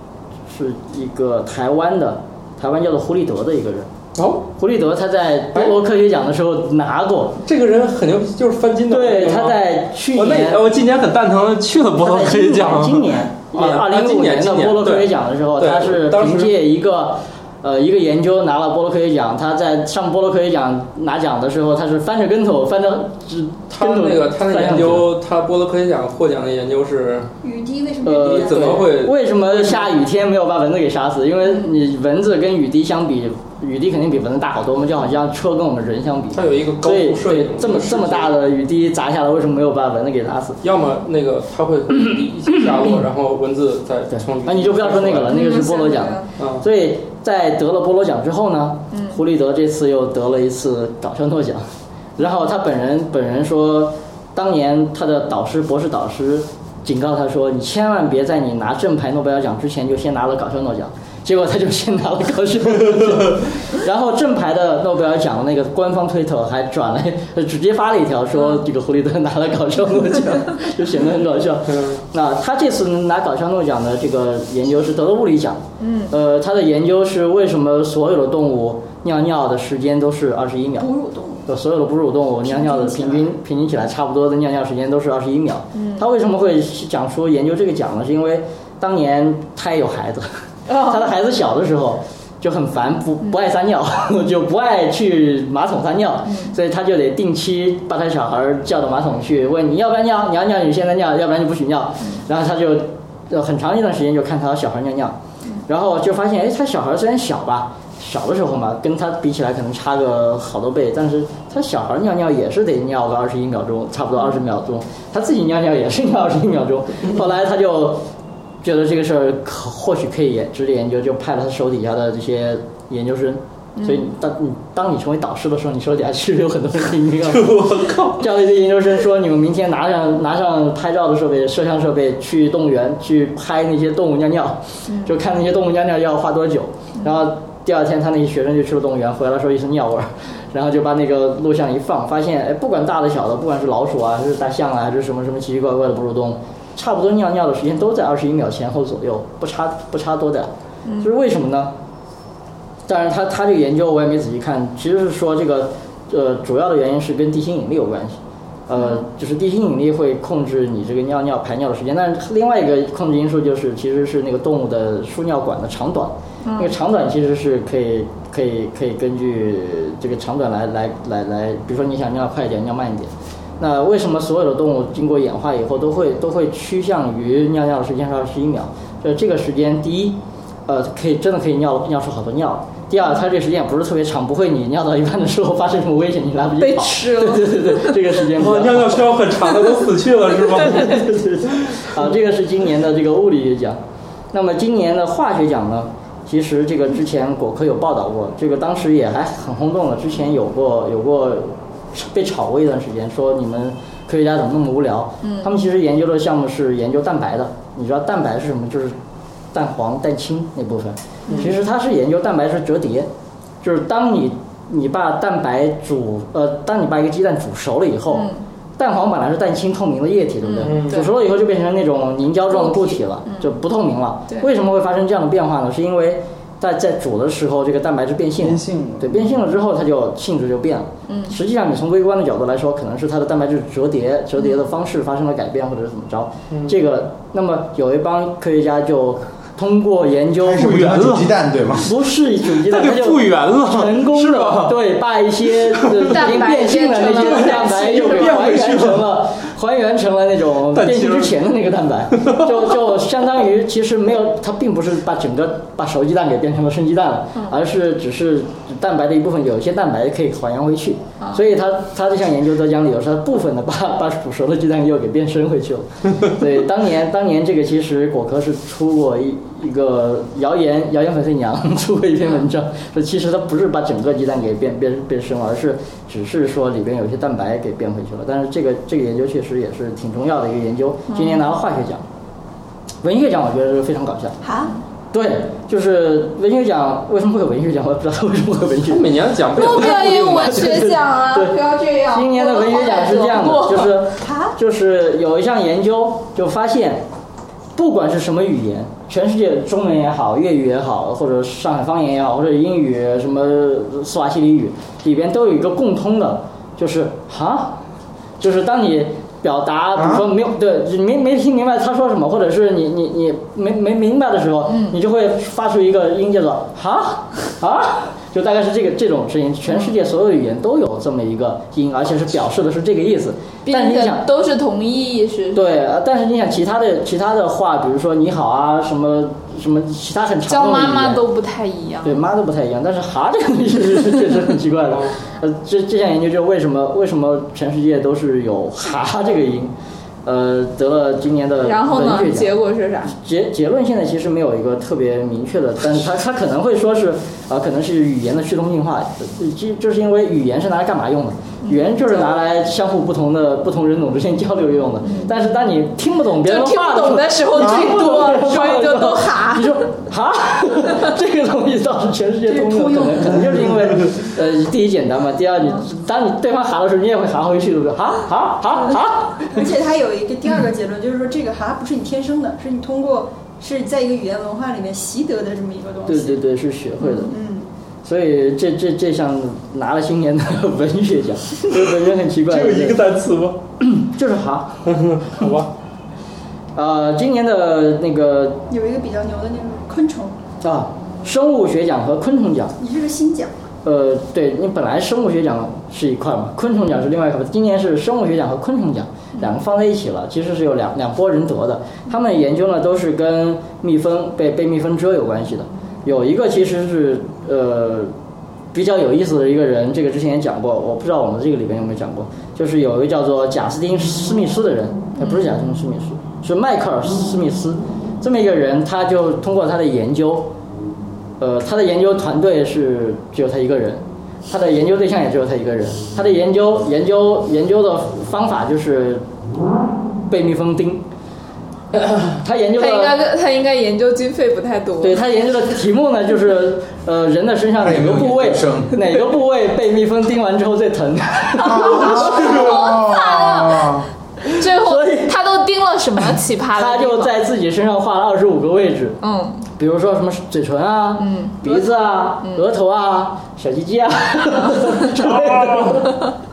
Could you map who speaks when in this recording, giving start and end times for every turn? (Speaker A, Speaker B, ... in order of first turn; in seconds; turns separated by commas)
Speaker A: 0.5-3.9, Speaker B: 4.1-4.5, Speaker A: 4.6-7.4, Speaker B: 7.4-16.5, Speaker A: 8.9-10.7, Speaker A: 12.0-25.1, Speaker B: 23.7-27.3, Speaker C: 27.4-28.6, Speaker A: 28.0-40.6, Speaker B: 28.1-29.9, Speaker B: 36.3-38.4, Speaker B: 40.6-45.4, Speaker A: 44.1-51.6, Speaker D: 45.3-46.3, Speaker B: 46.4-46.6, Speaker D: 48.9-49.2, Speaker A: 52.2-80.9, Speaker D: 68.3-68.6, Speaker B: 71.7-72.0, Speaker D: 75.8-76.1, Speaker C: 80.8-81.5, Speaker A: 81.5-118.0, Speaker C: 82.4-83.3, Speaker D: 85.7-86.0, Speaker D: 90.7-91.1, Speaker D: 96.2-96.5, Speaker A: 118.6-151.7, Speaker D: 123.8-124.0, Speaker B: 127.3-128.2, Speaker D: 134.9-135.1, Speaker D: 150.8-151.1, Speaker A: 152.9-189.2, Speaker D: 158.7-159.0, Speaker D: 166.4-166.7, Speaker D: 186.6-188.0, Speaker B: 188.3-191.0, Speaker D: 190.4-191.0, Speaker A: 190.6-193.8, Speaker A: 194.3-208.9, Speaker D: 205.2-205.5, Speaker A: 209.5-213.1, Speaker A: 213.6-240.8, Speaker D: 218.1-218.4, Speaker D: 220.4-221.1, Speaker B: 220.6-221.0, Speaker D: 222.5-223.5, Speaker E: 228.4-229.3, Speaker D: 231.1-231.3, Speaker E: 240.4-241.9, Speaker B: 240.6-241.3, Speaker A: 241.8-282.0, Speaker B: 242.5-244.8, Speaker B: 245.7-246.2, Speaker D: 246.0-248.6, Speaker B: 246.9-249.1, Speaker B: 250.7-251.3, Speaker D: 281.1-281.5, Speaker A: 283.0-284.4, Speaker C: 284.4-284.8, Speaker A: 285.1-289.1, Speaker B: 288.9-291.0, Speaker D: 289.5-294.0, Speaker A: 289.6-297.0, Speaker C: 294.2-294.5, Speaker A: 297.8-307.8, Speaker A: 308.4-324.2, Speaker E: 309.9-310.2, Speaker D: 314.6-315.0, Speaker D: 323.6-325.6, Speaker A: 325.5-331.2, Speaker D: 330.5-332.2, Speaker A: 332.0-339.7, Speaker B: 334.9-335.1, Speaker A: 340.2-342.5, Speaker D: 341.6-343.1, Speaker A: 343.1-369.6, Speaker D: 351.6-352.3, Speaker D: 355.0-355.3, Speaker D: 356.4-359.8, Speaker C: 362.5-363.9, Speaker C: 369.5-376.4, Speaker A: 376.1-377.3, Speaker C: 377.3-377.7, Speaker A: 378.0-383.0, Speaker B: 381.7-383.6, Speaker A: 383.8-384.9, Speaker B: 384.8-385.7, Speaker A: 386.8-388.7, Speaker C: 388.7-390.4, Speaker A: 390.6-392.8, Speaker C: 392.8-393.6, Speaker A: 393.8-408.1, Speaker A: 408.7-420.5, Speaker D: 415.2-415.4, Speaker A: 421.4-429.2, Speaker A: 430.3-431.0, Speaker A: 432.3-433.2, Speaker D: 432.7-435.2, Speaker A: 435.0-442.5, Speaker E: 437.8-439.2, Speaker E: 441.6-444.1, Speaker D: 441.7-444.0, Speaker A: 444.5-445.3, Speaker D: 444.6-447.3, Speaker A: 446.7-449.2, Speaker D: 449.2-449.6, Speaker A: 449.8-456.2, Speaker D: 451.2-451.8, Speaker B: 455.3-455.9